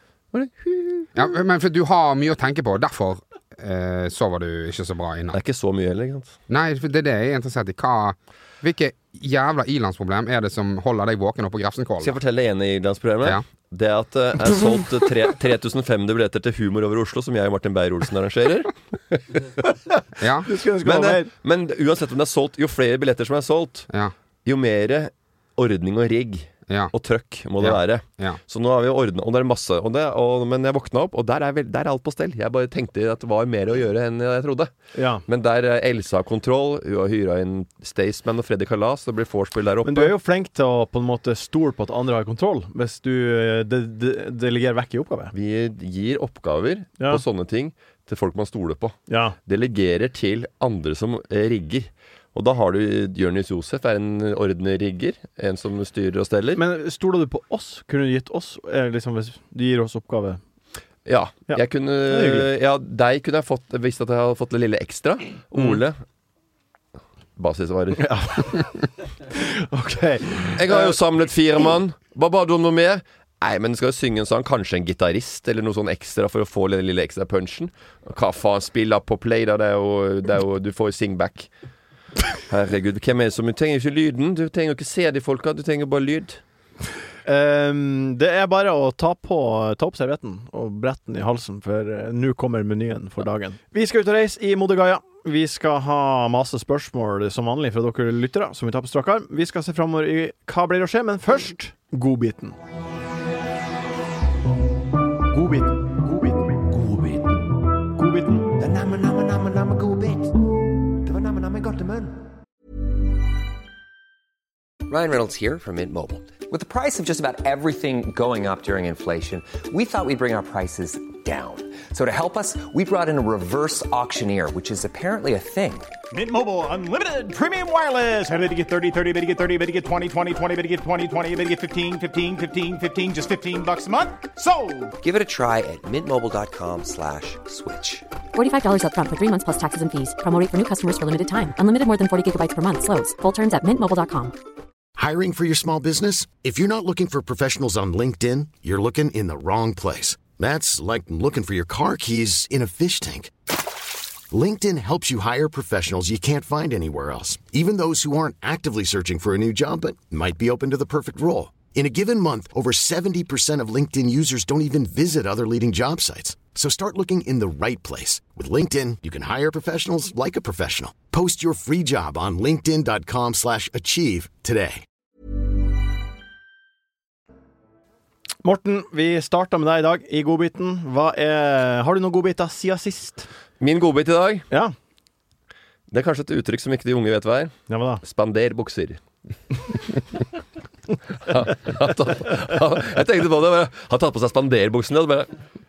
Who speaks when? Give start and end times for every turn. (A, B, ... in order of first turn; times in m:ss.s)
0:00.3-0:01.1 A
0:01.1-0:05.4 B
0:05.3-0:06.4 A
0:06.5-0:12.2 B
0:12.0-0:19.2 A
0:20.2-0:20.5 B
0:20.4-0:21.3 C
0:20.8-0:23.9 A
0:24.4-0:34.7 A
0:27.6-0:28.4 B
0:34.9-0:35.2 C
0:35.2-0:40.1 A
0:39.8-0:45.3 C
0:45.3-0:56.6 A
0:49.1-0:49.3 C
0:56.6-1:00.4 C
1:01.0-1:06.0 A
1:01.5-1:02.5 C
1:07.4-1:08.0 A
1:08.0-1:08.7 C
1:09.3-1:10.9 C
1:10.5-1:21.5 A
1:22.5-1:26.4 A
1:27.2-1:42.6 C
1:45.3-1:46.5 C
1:46.7-1:47.3 D
1:48.0-1:48.5 C
1:48.5-1:50.4 D
1:51.0-1:52.2 D
1:54.9-2:05.9 D
2:06.1-2:15.0 E
2:15.0-2:18.0 D
2:18.3-2:24.3 F
2:25.0-2:33.3 G
2:34.3-2:54.8 G
2:58.4-3:03.3 C
3:03.6-3:04.5 A
3:05.9-3:09.0 A
3:07.7-3:08.0 C
3:11.2-3:15.3 A